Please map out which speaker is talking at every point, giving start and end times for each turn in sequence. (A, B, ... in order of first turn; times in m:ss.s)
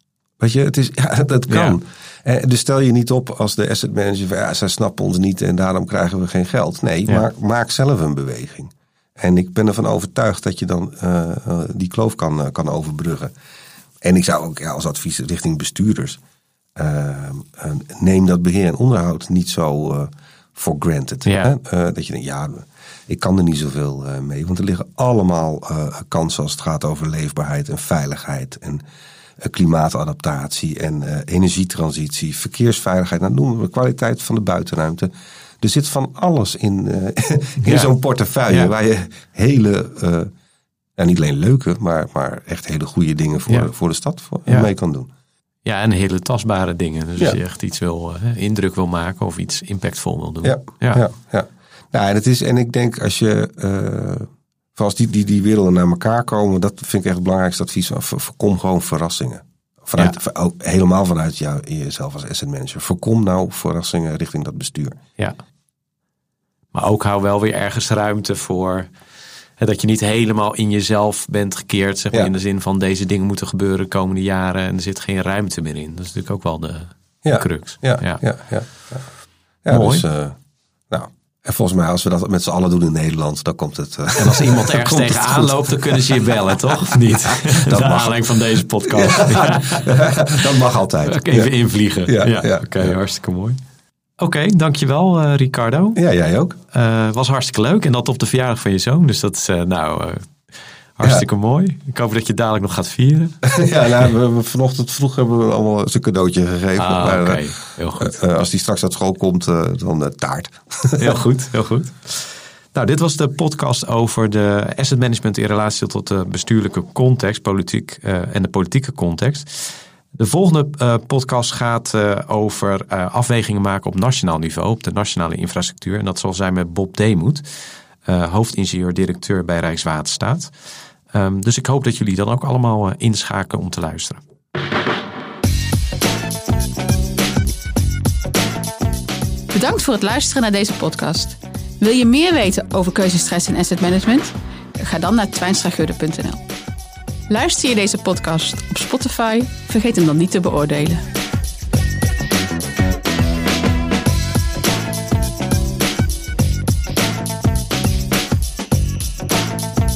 0:00.4-0:13.3 A
0:01.5-0:01.8 B
0:14.0-0:16.2 A
0:16.8-0:28.8 A
0:21.2-0:21.6 B
0:29.4-0:40.3 A
0:37.6-0:37.9 B
0:41.0-0:45.1 A
0:45.6-0:51.0 B
0:50.4-1:05.0 A
1:06.7-1:08.9 B
1:09.6-1:18.2 B
1:17.2-1:19.1 A
1:19.6-1:20.4 A
1:19.7-1:20.0 B
1:20.9-1:31.5 A
1:24.2-1:30.4 B
1:31.1-1:33.6 B
1:32.1-1:33.0 A
1:34.2-1:36.0 B
1:36.0-1:36.6 A
1:36.7-1:40.4 B
1:41.0-1:43.4 B
1:43.4-1:47.4 A
1:46.8-1:48.1 B
1:48.0-1:51.2 A
1:51.0-2:10.5 B
2:11.1-2:14.2 B
2:19.5-2:26.4 C
2:27.3-2:31.0 C